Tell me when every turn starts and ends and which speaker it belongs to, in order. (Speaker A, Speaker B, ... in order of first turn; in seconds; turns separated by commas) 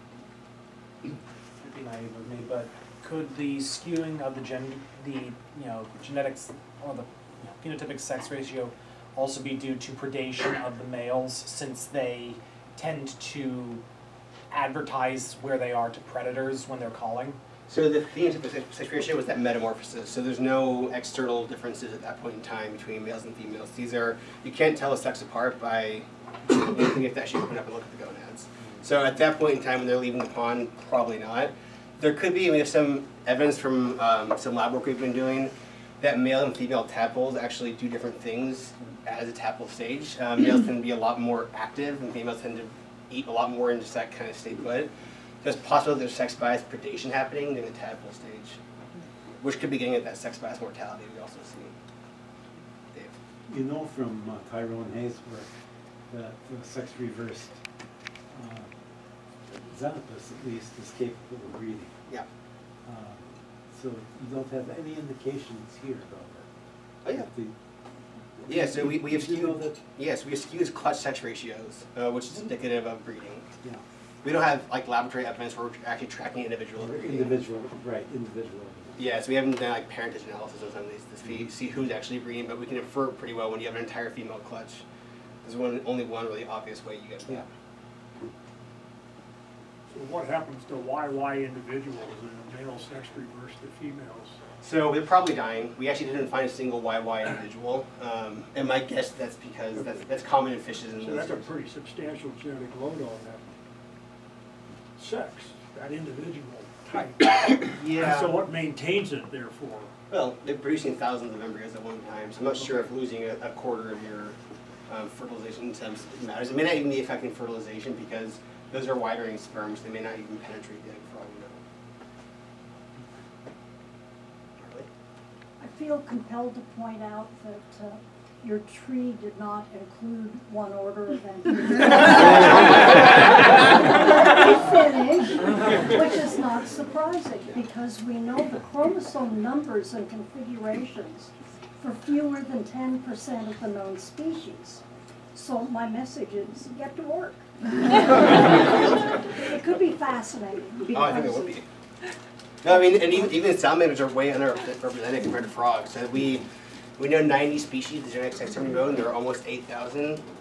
Speaker A: 1.6-13.8, Speaker A: 14.5-17.4, Speaker B: 17.7-44.9, Speaker B: 45.4-48.6, Speaker B: 49.4-51.7, Speaker C: 53.5-55.5, Speaker C: 56.1-57.7, Speaker C: 58.3-58.7, Speaker C: 59.5-61.9, Speaker C: 62.8-66.5, Speaker B: 67.0-67.3, Speaker C: 67.0-67.5, Speaker C: 68.4-69.8, Speaker B: 68.5-73.5, Speaker B: 74.2-77.4, Speaker C: 76.8-78.9, Speaker B: 79.0-84.8, Speaker B: 85.4-87.5, Speaker D: 89.9-94.4, Speaker B: 94.6-101.5, Speaker D: 101.0-103.5, Speaker D: 105.0-109.9, Speaker B: 107.7-108.4, Speaker B: 110.1-121.6, Speaker B: 124.6-124.9, Speaker E: 125.6-144.8, Speaker E: 145.3-151.5, Speaker B: 148.2-149.1, Speaker B: 150.9-151.6, Speaker B: 152.6-156.4, Speaker B: 157.0-160.2